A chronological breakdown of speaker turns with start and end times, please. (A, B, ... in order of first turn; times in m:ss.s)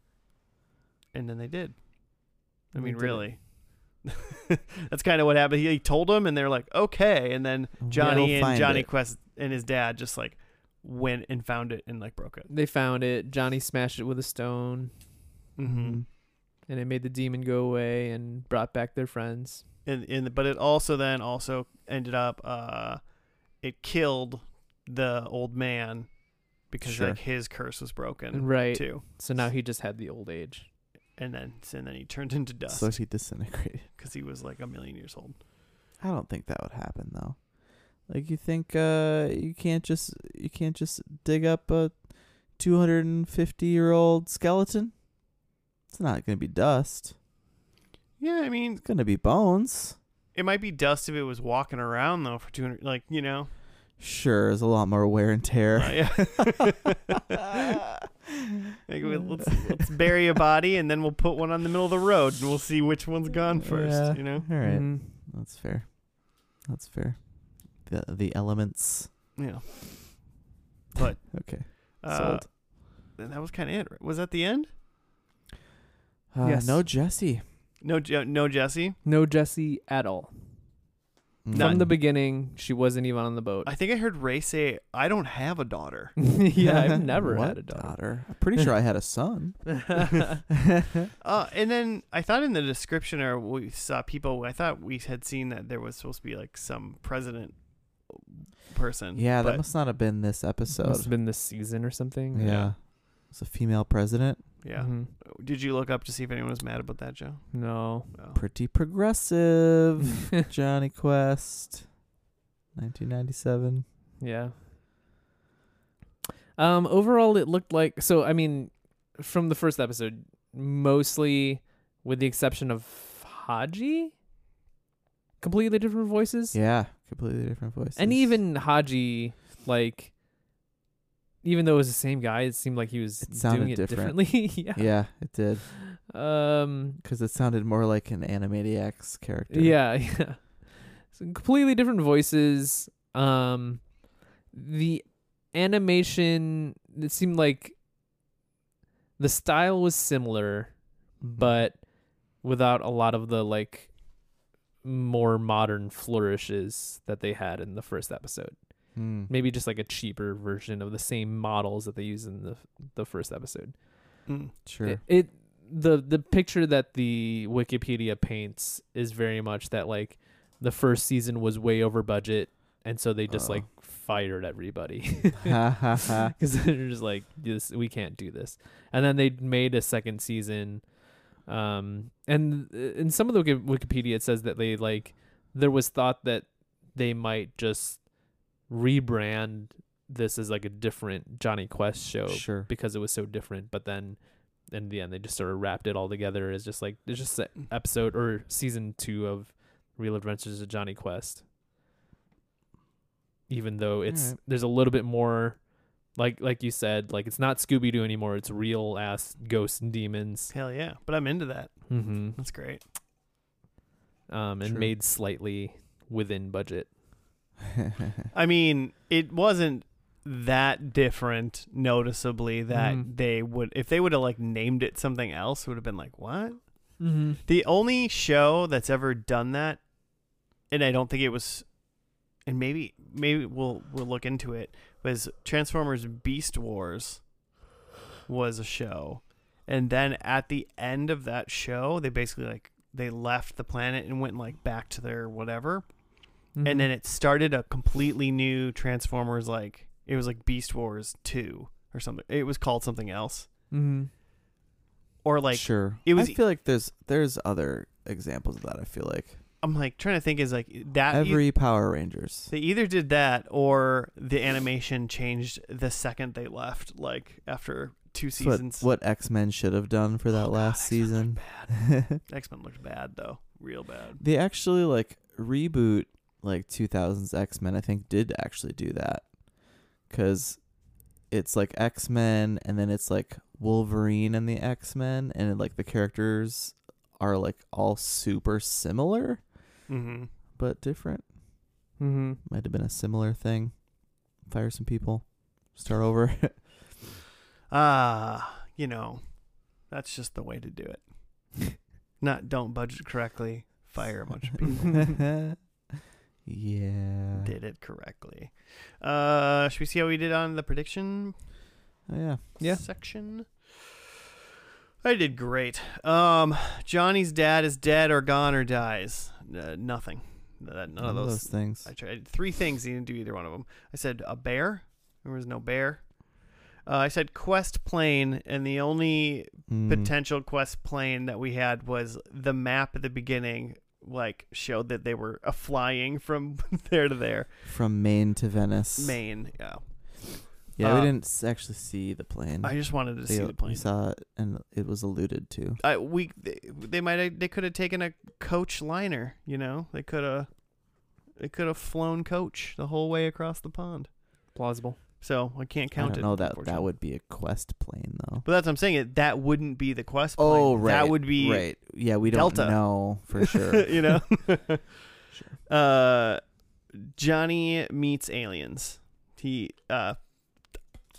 0:01.1-0:12.5 A
0:02.8-0:03.3 B
0:07.8-0:08.9 C
0:08.0-0:08.4 B
0:12.5-0:14.9 B
0:15.6-0:16.0 A
0:15.6-0:16.1 C
0:16.6-0:19.6 B
0:19.9-0:29.0 A
0:26.8-0:27.2 C
0:28.3-0:30.7 B
0:31.2-0:33.1 A
0:32.7-0:33.9 C
0:34.0-0:35.4 A
0:36.0-0:37.5 C
0:38.0-0:45.0 C
0:45.9-0:47.2 C
0:48.2-0:48.8 A
0:48.8-0:50.0 C
0:50.3-0:53.5 A
0:54.0-0:56.6 C
0:55.7-0:57.4 A
0:58.9-1:04.5 A
1:03.5-1:09.1 C
1:04.6-1:05.2 B
1:09.4-1:10.4 A
1:11.0-1:14.7 A
1:11.3-1:12.5 C
1:16.3-1:17.4 C
1:16.4-1:16.8 B
1:17.8-1:19.0 A
1:19.0-1:20.3 B
1:21.4-1:22.0 C
1:21.5-1:21.8 A
1:21.5-1:23.7 B
1:23.7-1:26.3 A
1:26.2-1:28.0 B
1:26.6-1:31.1 C
1:31.2-1:39.6 A
1:39.2-1:41.2 C
1:40.7-1:42.8 B
1:42.3-1:44.6 C
1:44.6-1:48.4 A
1:44.8-1:45.1 B
1:47.5-1:48.1 B
1:48.3-1:51.9 C
1:52.8-1:53.8 C
1:54.2-1:54.6 B
1:56.6-2:04.2 B
2:05.4-2:06.6 B
2:06.5-2:08.4 C
2:08.0-2:10.1 B
2:11.4-2:15.1 B
2:13.3-2:15.6 C
2:15.6-2:17.0 B
2:17.0-2:19.8 C
2:19.5-2:24.0 B
2:24.5-2:27.8 B
2:29.2-2:34.0 B
2:31.2-2:31.6 C
2:34.8-2:44.3 B
2:39.0-2:39.3 C
2:44.3-2:44.6 A
2:44.6-2:45.0 C
2:44.8-3:21.4 B
2:53.3-2:53.7 C
2:55.4-2:56.3 C
3:12.3-3:12.7 C
3:23.5-3:30.5 B
3:24.1-3:24.4 C
3:30.5-3:32.8 A
3:31.9-3:32.4 B
3:34.3-3:37.0 B
3:34.6-3:34.9 C
3:37.8-3:38.1 C
3:38.3-3:49.8 A
3:42.7-3:43.1 B
3:47.0-3:47.4 B
3:50.7-3:51.7 A
3:52.4-3:57.2 A
3:58.3-4:05.9 A
4:06.6-4:06.9 B
4:06.6-4:13.5 A
4:13.7-4:14.1 B
4:15.2-4:16.4 A
4:15.5-4:19.4 C
4:19.6-4:21.5 A
4:21.1-4:22.5 C
4:22.5-4:28.9 A
4:28.4-4:32.2 C
4:30.3-4:34.2 A
4:34.2-4:39.3 C
4:40.1-4:40.6 C
4:41.3-4:49.4 C
4:49.9-4:50.3 A
4:50.6-4:51.3 C
4:52.0-4:52.4 B
4:52.5-4:56.7 C
4:57.7-5:05.2 A
5:05.0-5:05.6 C
5:06.4-5:07.5 C
5:07.4-5:11.4 A
5:12.1-5:12.6 C
5:12.6-5:13.9 A
5:15.0-5:26.3 A
5:21.0-5:21.9 C
5:26.8-5:37.5 A
5:29.7-5:30.1 C
5:37.6-5:39.2 C
5:39.0-5:41.1 A
5:40.7-5:45.8 C
5:42.6-5:43.9 A
5:45.8-5:50.6 A
5:51.2-5:54.1 A
5:54.5-5:55.0 B
5:55.2-5:56.9 A
5:56.0-5:58.4 C
5:58.4-6:05.1 A
6:00.4-6:04.2 C
6:05.3-6:05.6 C
6:05.7-6:10.7 A